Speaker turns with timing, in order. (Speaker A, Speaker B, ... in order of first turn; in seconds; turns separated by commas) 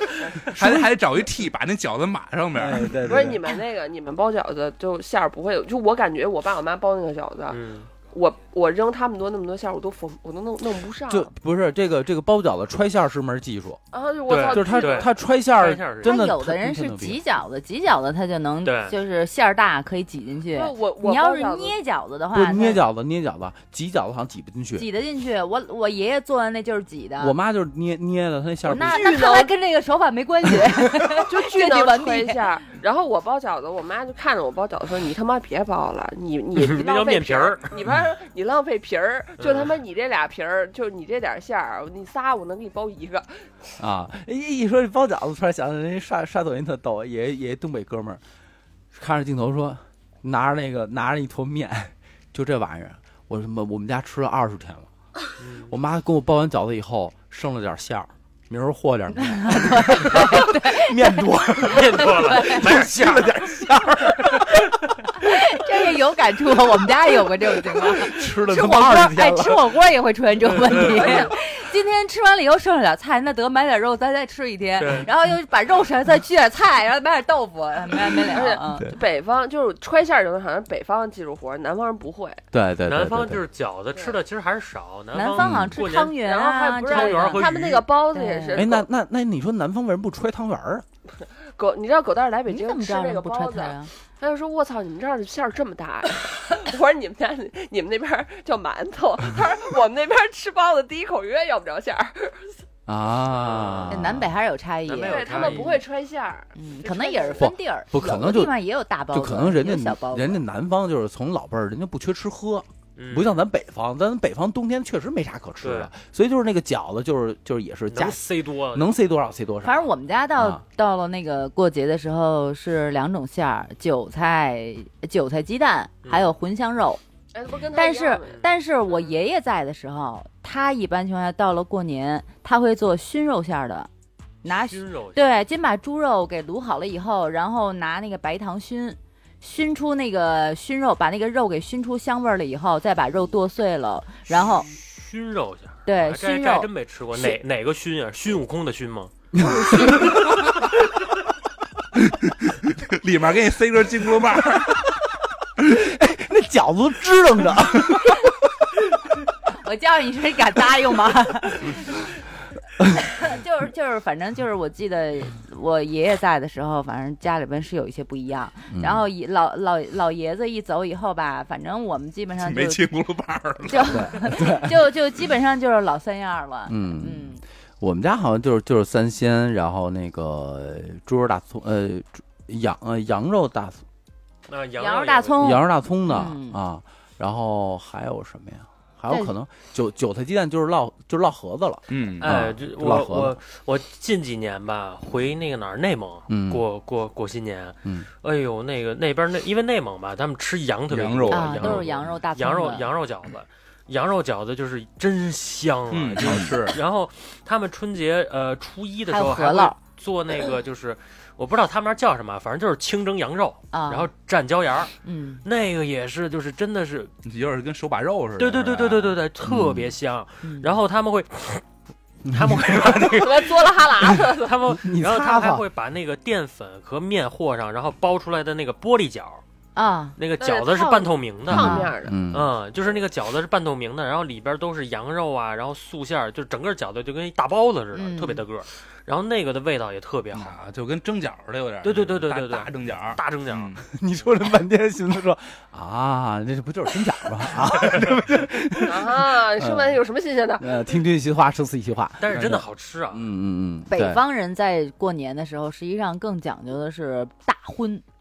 Speaker A: 0.4-3.0, Speaker B: 0.5-0.9, Speaker B: 2.5-3.4, Speaker C: 3.0-11.3, Speaker D: 7.5-7.9, Speaker B: 11.1-13.8, Speaker C: 13.9-15.1, Speaker D: 14.3-16.2, Speaker B: 14.4-17.2, Speaker E: 16.0-22.8, Speaker D: 18.6-18.9, Speaker C: 20.5-21.8, Speaker B: 22.3-24.9, Speaker E: 24.7-27.3, Speaker B: 27.2-29.1, Speaker E: 28.6-32.5, Speaker C: 28.7-29.5, Speaker C: 31.1-43.5, Speaker D: 36.5-37.8, Speaker D: 39.4-39.7, Speaker B: 43.8-48.2, Speaker B: 48.9-54.9, Speaker D: 55.4-55.7, Speaker B: 55.7-64.6, Speaker E: 59.3-61.3, Speaker D: 61.6-63.5, Speaker E: 61.9-62.7, Speaker E: 65.2-78.9, Speaker B: 67.6-69.6, Speaker D: 70.4-71.3, Speaker C: 71.0-71.3, Speaker D: 74.8-75.1, Speaker C: 78.3-82.4, Speaker B: 82.5-83.4, Speaker D: 82.9-86.2, Speaker C: 83.9-84.2, Speaker E: 85.1-87.5, Speaker B: 85.4-85.8, Speaker C: 86.2-88.9, Speaker D: 86.8-87.9, Speaker E: 88.1-88.7, Speaker B: 88.5-90.8, Speaker C: 91.2-102.5, Speaker E: 92.5-93.9, Speaker B: 102.9-104.3, Speaker D: 103.3-104.0, Speaker E: 103.9-105.7, Speaker D: 104.9-105.8, Speaker C: 105.0-107.5, Speaker E: 106.5-110.4, Speaker B: 107.3-108.6, Speaker B: 109.1-120.6, Speaker D: 113.0-113.4, Speaker D: 115.6-115.9, Speaker D: 117.9-119.6, Speaker E: 119.6-127.0, Speaker D: 126.0-126.3, Speaker C: 127.3-129.1, Speaker E: 127.7-133.9, Speaker E: 134.4-144.7, Speaker D: 134.5-135.2, Speaker D: 144.5-149.1, Speaker E: 145.8-147.4, Speaker B: 149.3-150.2, Speaker E: 149.4-150.2, Speaker A: 150.0-150.7, Speaker A: 151.9-154.9, Speaker B: 155.6-158.2, Speaker E: 159.6-162.1, Speaker E: 163.0-172.8, Speaker B: 168.7-169.0, Speaker A: 172.4-174.0, Speaker E: 173.6-177.4, Speaker B: 173.9-174.8, Speaker B: 176.7-183.8, Speaker D: 184.5-185.6, Speaker E: 184.8-186.6, Speaker B: 185.4-193.4, Speaker A: 191.9-192.4, Speaker D: 192.2-217.1, Speaker B: 196.3-196.6, Speaker A: 200.9-202.0, Speaker E: 201.3-202.9, Speaker A: 205.9-206.8, Speaker E: 209.1-209.8, Speaker E: 213.7-214.1, Speaker E: 215.0-215.4, Speaker A: 217.2-219.1, Speaker D: 218.4-221.6, Speaker B: 219.4-219.9, Speaker B: 222.2-223.3, Speaker D: 222.3-223.8, Speaker C: 223.1-224.6, Speaker D: 224.3-229.4, Speaker B: 224.6-225.6, Speaker E: 229.8-230.2, Speaker D: 230.2-240.6, Speaker C: 230.4-232.2, Speaker B: 231.5-232.5, Speaker E: 231.5-231.9, Speaker E: 237.9-238.4, Speaker A: 240.3-243.8, Speaker D: 241.8-243.7, Speaker B: 243.9-250.0, Speaker C: 248.8-250.7, Speaker B: 250.6-254.2, Speaker D: 252.2-253.3, Speaker E: 253.9-258.0